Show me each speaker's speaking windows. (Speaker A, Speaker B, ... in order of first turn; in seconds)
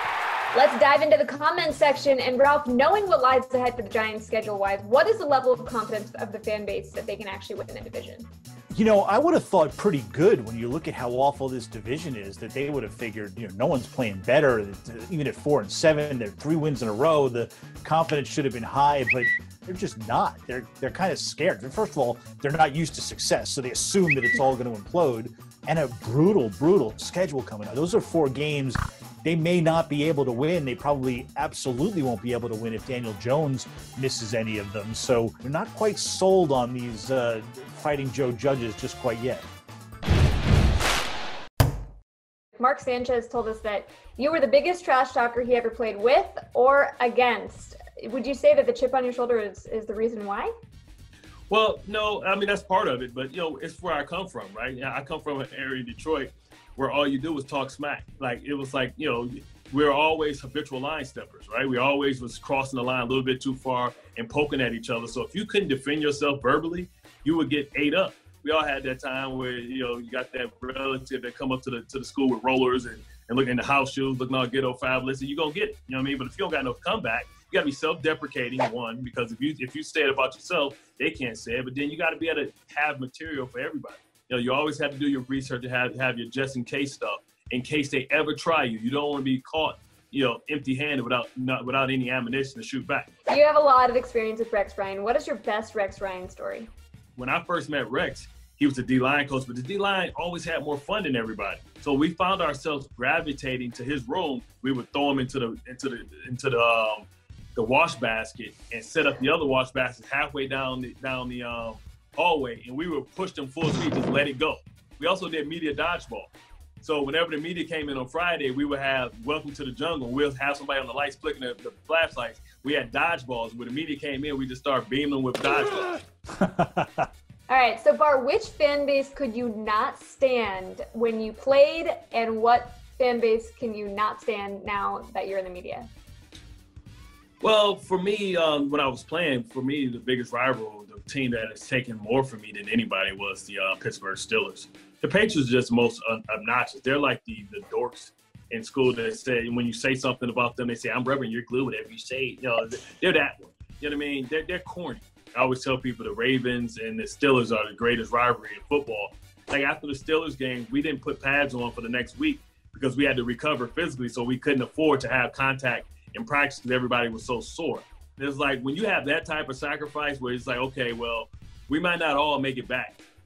Speaker A: 0.5-8.3, 42.6-50.5, 93.3-96.7, 127.5-135.9
Speaker B: 8.7-39.5, 126.3-127.1
Speaker C: 51.5-93.1, 97.2-126.0, 137.4-173.0